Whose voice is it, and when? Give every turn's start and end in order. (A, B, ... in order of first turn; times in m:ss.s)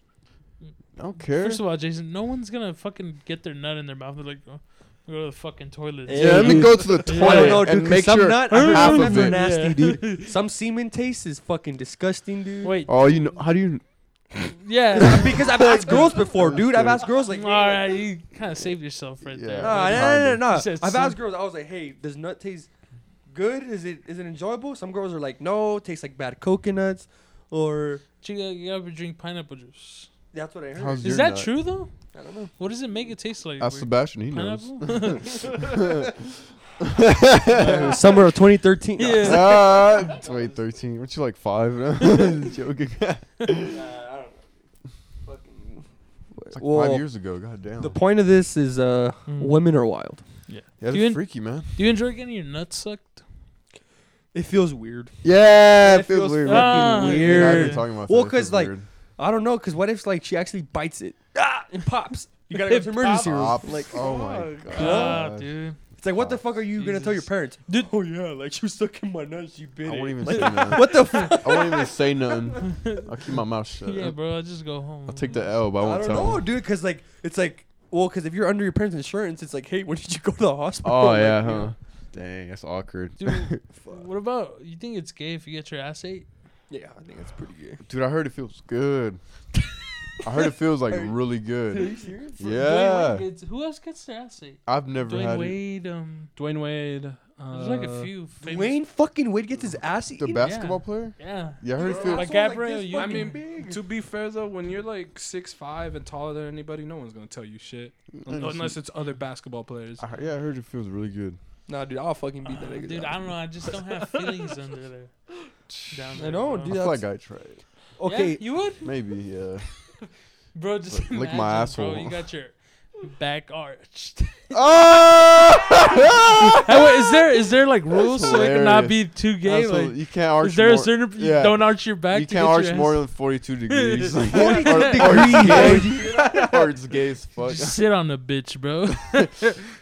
0:00.6-0:07.9 A
0:01.0-0:01.6 B
0:06.0-0:12.7 C
0:06.1-0:09.5 B
0:08.5-0:10.3 A
0:12.6-0:13.4 A
0:12.8-0:17.1 B
0:14.6-0:16.1 A
0:15.0-0:17.9 C
0:17.3-0:21.2 A
0:19.2-0:20.5 B
0:19.6-0:22.7 C
0:23.3-0:28.0 C
0:28.2-0:30.1 A
0:30.3-0:31.1 C
0:30.7-0:31.5 B
0:31.0-0:31.9 A
0:32.1-0:32.5 C
0:32.6-0:35.7 A
0:33.6-0:36.2 B
0:36.8-0:38.2 B
0:37.5-0:40.3 C
0:39.0-0:40.1 A
0:39.2-0:43.8 B
0:43.7-0:44.5 C
0:45.2-0:47.1 C
0:46.5-0:48.0 B
0:47.8-0:50.2 C
0:49.3-0:49.6 A
0:50.5-0:53.2 A
0:50.8-0:51.7 B
0:54.3-0:55.2 C
0:55.2-0:58.8 B
0:55.8-1:05.2 C
0:56.4-0:57.8 A
1:02.6-1:03.5 A
1:03.2-1:05.5 B
1:03.9-1:04.9 D
1:04.7-1:05.8 A
1:06.0-1:12.1 C
1:06.1-1:06.4 B
1:06.8-1:07.9 A
1:09.8-1:14.2 B
1:10.2-1:11.4 A
1:12.6-1:13.1 A
1:13.8-1:15.6 A
1:15.0-1:16.5 B
1:15.8-1:21.7 C
1:20.8-1:23.6 B
1:23.2-1:26.3 A
1:23.8-1:24.0 C
1:26.7-1:27.8 C
1:27.8-1:29.2 B
1:30.2-1:33.2 B
1:30.9-1:31.1 C
1:31.7-1:32.6 C
1:32.4-1:36.3 A
1:34.6-1:35.6 B
1:36.4-1:38.1 D
1:37.5-1:38.8 A
1:38.4-1:40.5 C
1:40.2-1:42.2 B
1:40.4-1:43.4 A
1:41.7-1:43.8 C
1:41.9-1:42.2 D
1:42.9-1:50.0 D
1:48.2-1:48.8 B
1:50.0-1:51.4 B
1:51.7-1:53.3 C
1:52.4-1:55.1 A
1:55.9-1:56.7 A
1:56.1-1:57.0 C
1:56.6-1:57.6 B
1:58.0-1:58.4 C
1:58.0-1:58.9 A
1:58.8-1:59.7 B
2:00.5-2:04.7 A
2:00.9-2:02.2 B
2:04.5-2:07.1 B
2:06.5-2:13.0 A
2:07.9-2:17.8 B
2:13.7-2:16.5 A
2:14.3-2:16.2 C
2:17.4-2:19.7 A